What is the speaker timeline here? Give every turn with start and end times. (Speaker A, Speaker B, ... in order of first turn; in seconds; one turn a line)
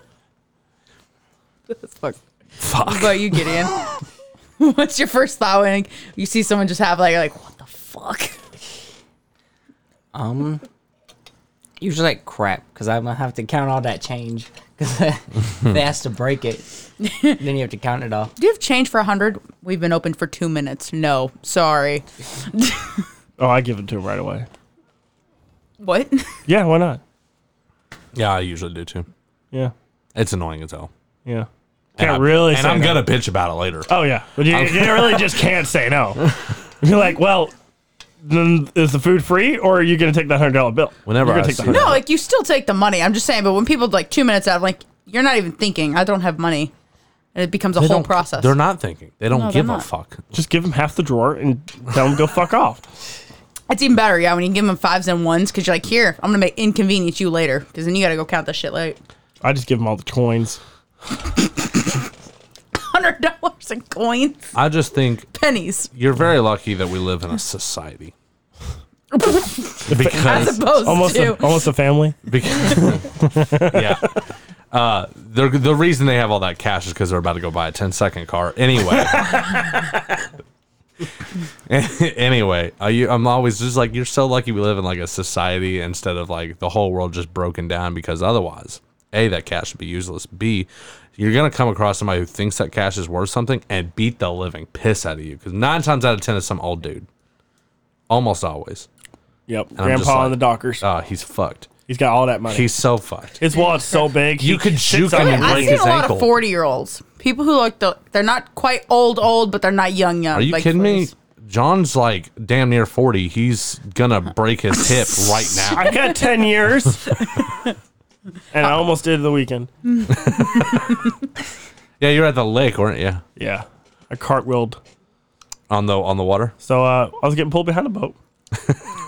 Speaker A: 1.7-2.2
Speaker B: 2.6-3.3
Speaker A: 2.7-3.8
Speaker A: 4.6-8.4
Speaker C: 10.1-10.6
Speaker C: 11.8-16.6
Speaker A: 17.0-17.4
Speaker C: 17.4-18.3
Speaker A: 18.4-22.9
Speaker B: 23.4-24.5
Speaker A: 25.8-26.4
Speaker B: 26.5-27.0
Speaker D: 28.1-29.1
Speaker D: 30.1-30.9
Speaker B: 31.3-33.1
Speaker D: 32.0-33.9
Speaker B: 33.9-36.2
Speaker D: 34.5-35.4
Speaker B: 36.8-37.5
Speaker B: 38.2-42.0
Speaker D: 41.1-42.0
Speaker A: 41.6-46.7
Speaker A: 47.4-48.6
Speaker D: 47.8-50.2
Speaker A: 49.3-49.9
Speaker B: 50.3-52.8
Speaker A: 53.7-59.0
Speaker B: 59.4-60.6
Speaker A: 62.8-64.5
Speaker D: 64.5-65.3
Speaker A: 65.3-65.9
Speaker D: 65.9-68.1
Speaker A: 69.1-71.6
Speaker B: 69.9-72.2
Speaker D: 69.9-70.6
Speaker D: 72.3-74.2
Speaker B: 72.7-74.0
Speaker D: 74.7-79.7
Speaker D: 81.7-97.1
Speaker D: 98.1-98.9
Speaker B: 99.5-100.8
Speaker D: 99.8-101.7
Speaker B: 101.9-102.7
Speaker D: 102.5-103.4
Speaker B: 103.4-105.8
Speaker D: 104.4-106.3
Speaker A: 105.1-111.1
Speaker D: 110.3-116.0
Speaker B: 115.7-117.1
Speaker B: 118.5-119.7
Speaker D: 120.2-120.9
Speaker D: 122.0-123.2
Speaker B: 123.4-124.8
Speaker D: 125.7-126.5
Speaker B: 126.6-128.2